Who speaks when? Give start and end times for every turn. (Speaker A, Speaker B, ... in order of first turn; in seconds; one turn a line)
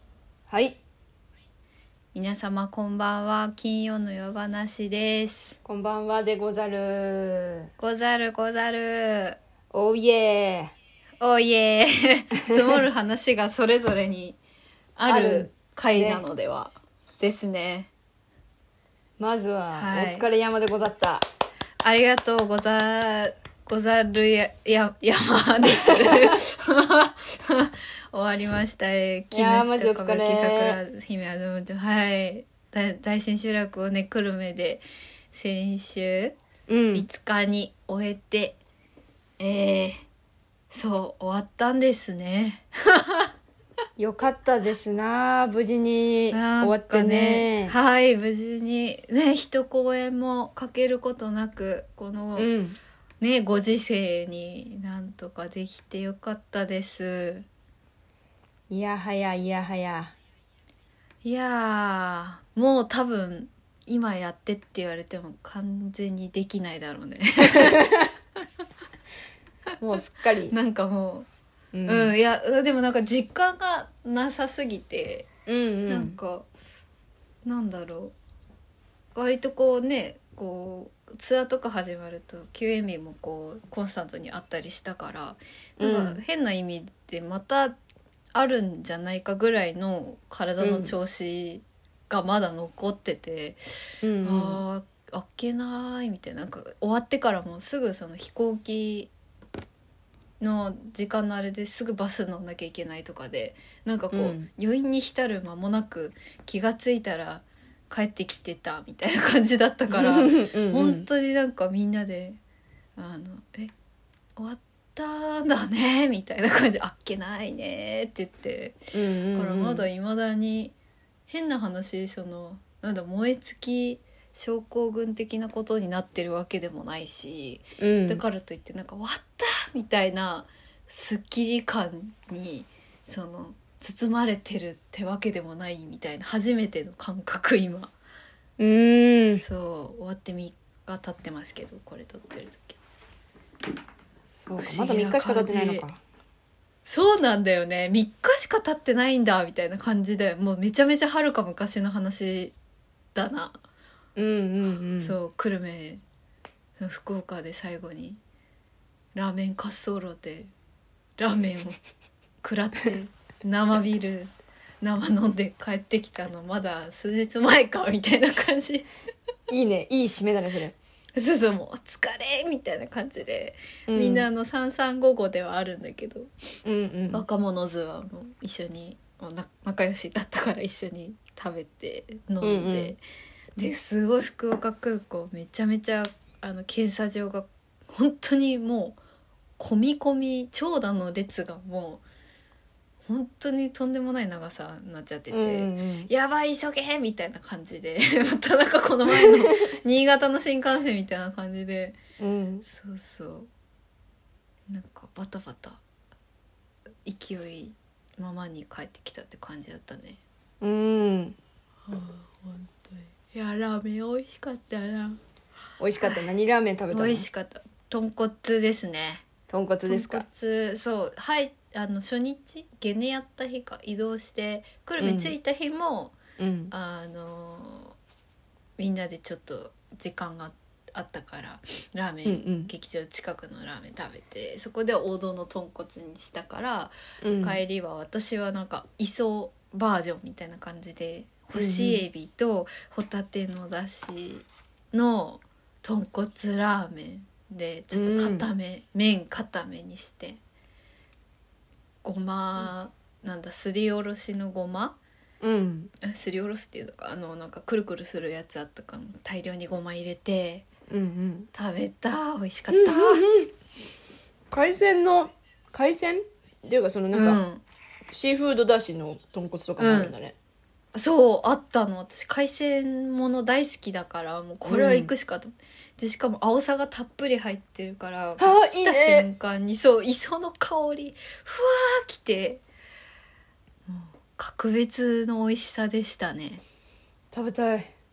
Speaker A: 0.5-0.8
Speaker B: 2.1-5.6
Speaker A: 5.7-7.7
Speaker B: 7.8-9.4
Speaker A: 9.7-10.7
Speaker B: 11.2-14.4
Speaker B: 15.0-17.9
Speaker A: 15.1-16.2
Speaker A: 19.2-21.3
Speaker B: 19.7-20.3
Speaker B: 21.8-36.4
Speaker A: 25.9-26.4
Speaker A: 29.3-30.8
Speaker A: 36.7-37.1
Speaker B: 36.9-38.6
Speaker B: 39.4-40.0
Speaker B: 40.7-43.3
Speaker A: 44.0-47.7
Speaker B: 46.3-52.5
Speaker A: 52.4-52.8
Speaker B: 53.2-57.5
Speaker A: 58.7-60.1
Speaker B: 61.2-68.1
Speaker A: 67.6-68.1
Speaker A: 69.8-70.5
Speaker B: 70.5-71.3
Speaker A: 71.7-72.1
Speaker B: 71.9-75.3
Speaker A: 75.5-76.2
Speaker B: 75.9-76.5
Speaker B: 77.5-78.2
Speaker B: 79.2-87.8
Speaker A: 85.8-86.2
Speaker B: 88.3-93.6
Speaker A: 90.6-90.9
Speaker A: 94.0-94.6
Speaker B: 94.2-99.1
Speaker B: 100.4-112.4
Speaker A: 104.1-104.5
Speaker A: 109.9-111.1
Speaker B: 113.0-113.7
Speaker B: 114.4-120.8
Speaker A: 118.9-119.9
Speaker B: 121.3-137.9
Speaker A: 127.8-128.2
Speaker A: 138.6-139.4
Speaker B: 139.3-142.8
Speaker A: 144.3-146.0
Speaker B: 144.6-145.8
Speaker B: 146.9-152.6
Speaker B: 153.2-153.6
Speaker A: 154.2-155.2
Speaker B: 155.0-156.0
Speaker B: 156.8-158.2
Speaker B: 159.2-160.5
Speaker B: 161.2-161.8
Speaker B: 162.4-168.9
Speaker A: 169.5-170.8
Speaker B: 171.2-176.3
Speaker A: 173.9-174.3
Speaker A: 176.7-177.2
Speaker B: 177.1-183.0
Speaker A: 182.4-183.0
Speaker B: 183.6-189.0
Speaker B: 189.6-192.0
Speaker B: 193.1-202.0
Speaker A: 195.3-196.1
Speaker A: 199.1-199.4
Speaker A: 202.2-202.6
Speaker B: 202.6-203.5
Speaker B: 204.7-205.8
Speaker B: 207.1-210.2
Speaker A: 210.6-211.4
Speaker B: 211.9-215.2
Speaker A: 215.8-217.3
Speaker B: 216.9-219.3
Speaker A: 219.5-220.2
Speaker B: 219.9-226.2
Speaker A: 225.0-225.3
Speaker A: 226.4-226.7
Speaker B: 226.7-227.9
Speaker B: 228.8-250.4
Speaker A: 232.2-232.7
Speaker A: 237.2-237.6
Speaker A: 241.5-242.0
Speaker A: 247.9-248.5
Speaker B: 252.0-255.0
Speaker A: 255.4-255.9
Speaker B: 256.0-260.7
Speaker A: 260.9-261.5
Speaker B: 261.5-263.3
Speaker A: 262.7-263.5
Speaker A: 264.5-267.4
Speaker B: 267.1-267.6
Speaker A: 268.1-270.4
Speaker B: 269.8-270.1
Speaker B: 270.9-282.6
Speaker A: 274.7-275.1
Speaker A: 278.4-279.3
Speaker B: 283.9-286.6
Speaker A: 287.3-287.9